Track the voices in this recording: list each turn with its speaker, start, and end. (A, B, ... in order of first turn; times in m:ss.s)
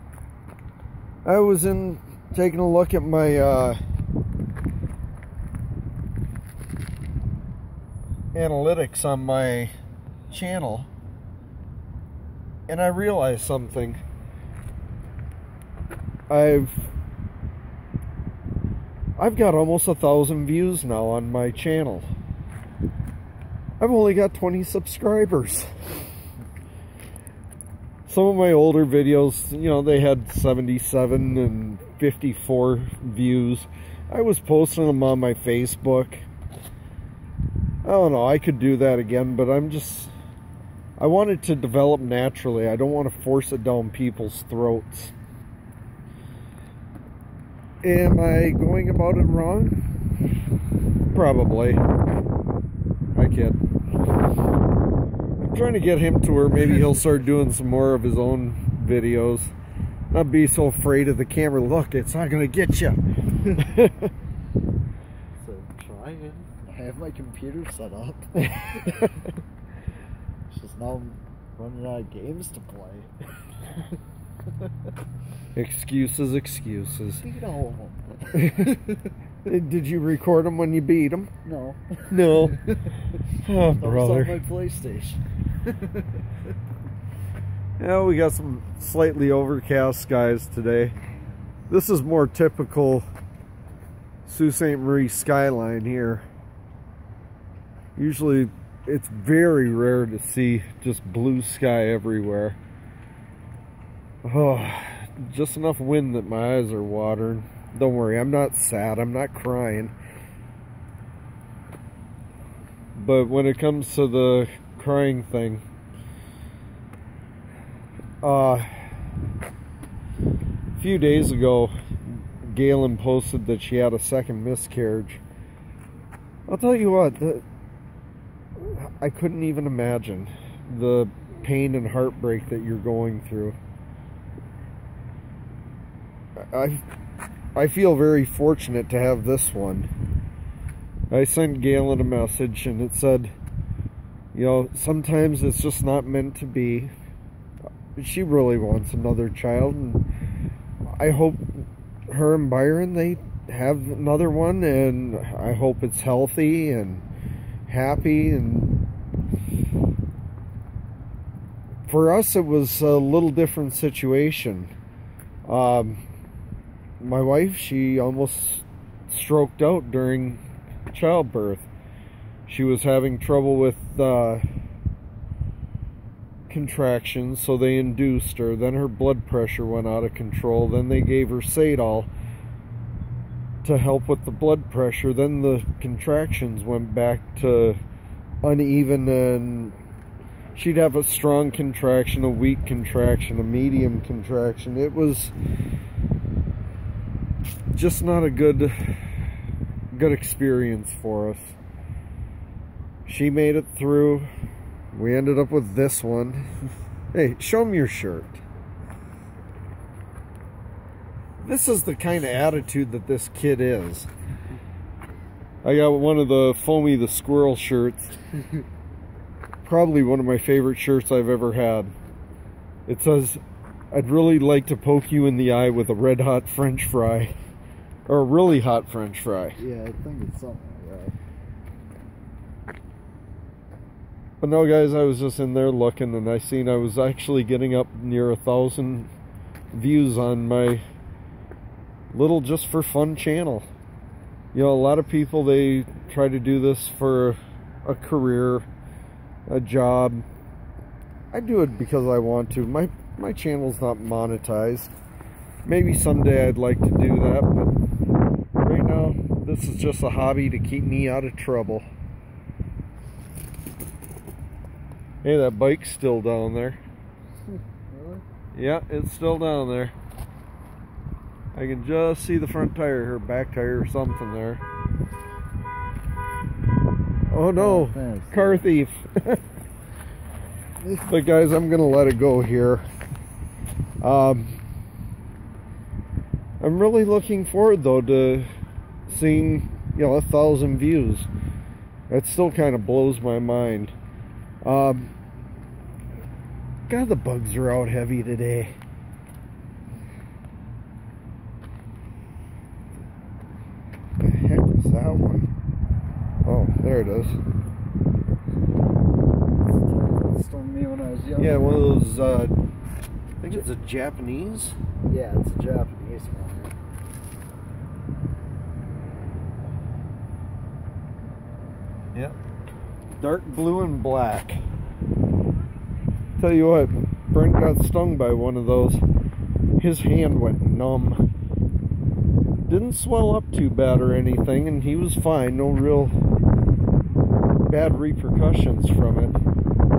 0:01.2-0:03.8 A
0:08.3-0:09.7 A
0:10.3-0:10.9 A
0:12.7-0:14.0 A
0:16.3-0:16.9 A
0:19.2-0:22.1 A
0:23.8-0:25.7 A
0:28.1-0:36.2 A
0:37.8-0:40.1 A
0:41.0-0:45.1 A
0:47.8-0:49.8 A
0:51.1-0:51.8 A
0:53.2-0:53.6 A
0:55.4-0:59.5 A
1:00.1-1:04.1 A
1:05.4-1:09.1 B
1:08.4-1:09.1 A
1:10.5-1:13.1 B
1:15.5-1:17.2 A
1:17.2-1:19.1 B
1:18.3-1:18.8 A
1:19.4-1:21.3 A
1:21.4-1:26.0 B
1:22.1-1:22.6 A
1:23.4-1:24.4 A
1:27.8-1:31.0 A
1:31.7-1:33.0 A
1:34.3-1:36.2 A
1:38.0-1:42.6 A
1:44.2-1:49.9 A
1:53.0-1:55.6 A
1:58.2-1:58.9 A
2:00.8-2:01.7 A
2:02.4-2:05.2 A
2:06.5-2:07.4 A
2:08.6-2:13.6 A
2:16.4-2:16.8 A
2:17.6-2:19.9 A
2:21.1-2:23.3 A
2:24.3-2:26.9 A
2:28.0-2:30.0 A
2:31.0-2:37.0 A
2:37.7-2:38.8 A
2:41.9-2:44.7 A
2:45.4-2:46.0 A
2:47.0-2:50.4 A
2:50.9-2:51.7 A
2:52.5-2:54.5 A
2:56.5-3:02.1 A
3:03.6-3:07.8 A
3:08.4-3:09.8 A
3:10.6-3:15.3 A
3:17.7-3:19.2 A
3:19.9-3:21.6 A
3:23.1-3:24.3 A
3:24.9-3:26.5 A
3:27.1-3:28.4 A
3:31.4-3:34.1 A
3:35.6-3:38.2 A
3:39.6-3:41.9 A
3:42.9-3:47.3 A
3:48.1-3:49.6 A
3:49.6-3:51.2 B
3:54.4-3:59.1 A
3:59.7-4:00.8 A
4:02.1-4:03.7 A
4:04.5-4:08.7 A
4:09.5-4:10.2 A
4:11.3-4:14.9 A
4:15.6-4:17.8 A
4:18.6-4:21.8 A
4:25.2-4:26.8 A
4:27.9-4:28.2 B
4:28.5-4:29.9 A
4:31.6-4:34.6 A
4:37.3-4:39.4 A
4:37.6-4:38.7 B
4:40.9-4:42.8 A
4:44.0-4:44.6 A
4:46.6-4:48.5 A
4:49.1-4:51.3 A
4:52.1-4:53.9 A
4:54.6-4:55.1 A
4:56.9-4:58.8 A
5:04.2-5:05.5 A
5:06.4-5:07.4 A
5:09.4-5:11.9 B
5:11.4-5:12.6 A
5:13.4-5:14.8 A
5:15.0-5:16.8 B
5:23.2-5:24.6 A
5:26.4-5:29.0 A
5:29.8-5:31.2 A
5:32.7-5:36.2 A
5:37.7-5:39.4 A